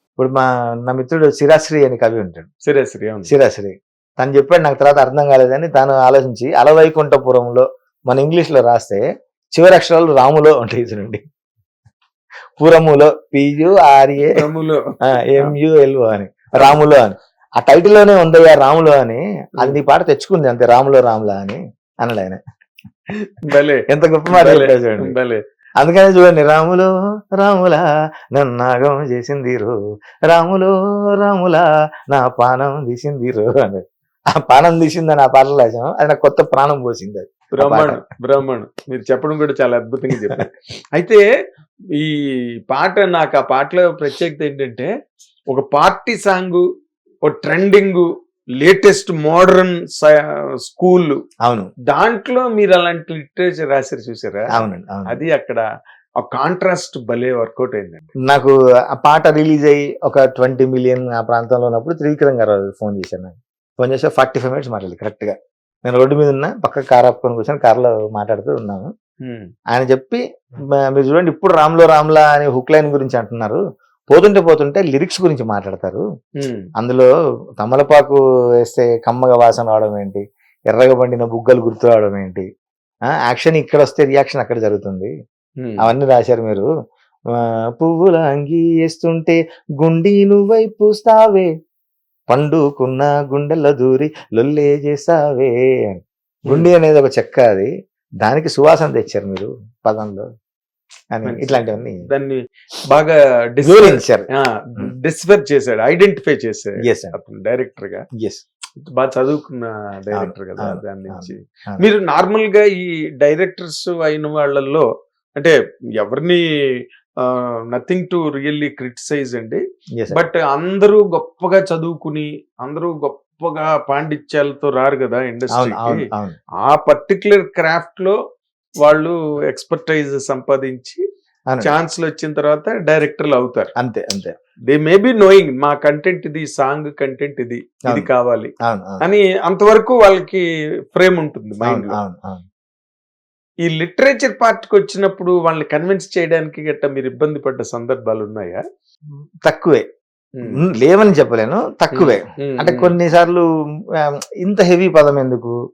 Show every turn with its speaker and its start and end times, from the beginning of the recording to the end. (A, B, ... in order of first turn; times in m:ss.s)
0:00.2-0:02.5 A
0:02.6-0:03.3 B
0:03.2-0:09.0 A
0:09.5-0:11.2 A
0:12.6-0:14.4 A
0:14.3-0:14.8 B
0:15.0-0:22.4 A
0:23.2-0:25.4 B
0:23.9-0:25.2 A
0:25.8-0:29.7 A
0:30.3-0:38.0 A
0:37.6-0:41.2 B
0:42.7-0:44.9 B
0:45.5-0:46.6 B
0:47.2-0:48.1 B
0:48.6-0:51.2 B
0:51.4-0:51.7 A
0:51.9-0:55.6 B
0:54.5-0:55.2 A
0:56.2-0:58.1 B
0:58.2-1:08.9 A
1:09.2-1:09.5 B
1:09.7-1:10.2 A
1:10.8-1:16.0 A
1:16.4-1:16.6 B
1:16.8-1:22.4 A
1:23.1-1:25.1 A
1:25.6-1:25.9 B
1:25.8-1:26.6 A
1:27.8-1:31.5 A
1:32.3-1:37.7 A
1:38.2-1:40.2 A
1:41.1-1:42.0 A
1:41.2-1:48.0 B
1:43.6-1:44.9 A
1:46.8-1:47.1 A
1:48.8-1:54.8 B
1:50.1-1:51.9 A
1:55.4-1:56.4 B
1:57.2-2:06.1 B
1:59.9-2:00.2 A
2:05.5-2:06.4 A
2:06.6-2:08.2 B
2:08.8-2:11.0 B
2:11.6-2:13.7 B
2:13.8-2:14.3 A
2:14.7-2:22.0 B
2:18.6-2:19.0 A
2:21.6-2:22.4 A
2:23.6-2:28.6 B
2:29.4-2:29.8 A
2:30.4-2:30.6 B
2:30.4-2:33.4 A
2:31.9-2:32.9 B
2:34.0-2:35.5 A